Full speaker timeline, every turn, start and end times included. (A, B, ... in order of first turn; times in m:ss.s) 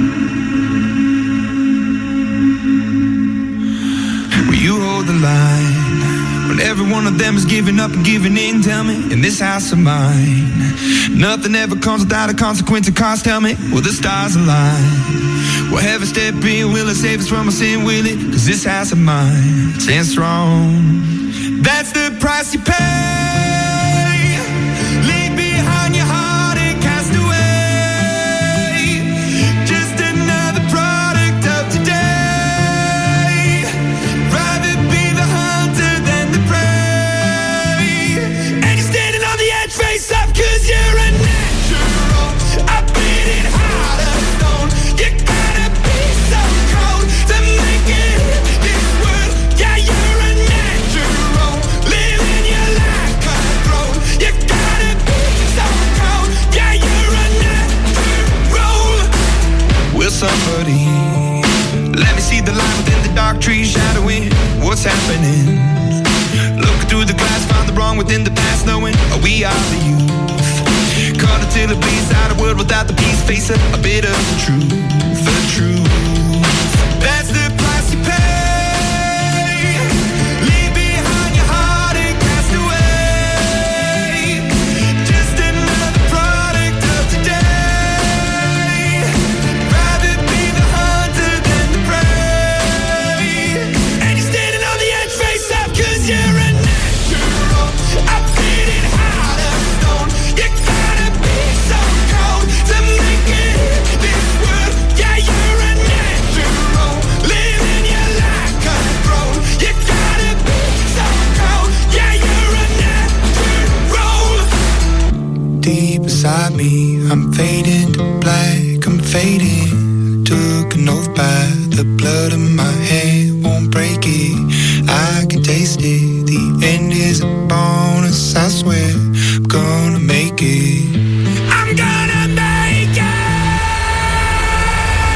0:04.4-0:59.1 A
0:59.9-1:06.0 A
1:06.6-1:54.5 A
1:55.6-1:59.7 A
2:00.3-2:04.3 A
2:04.9-2:08.9 A
2:09.5-2:10.8 A
2:11.5-2:13.6 A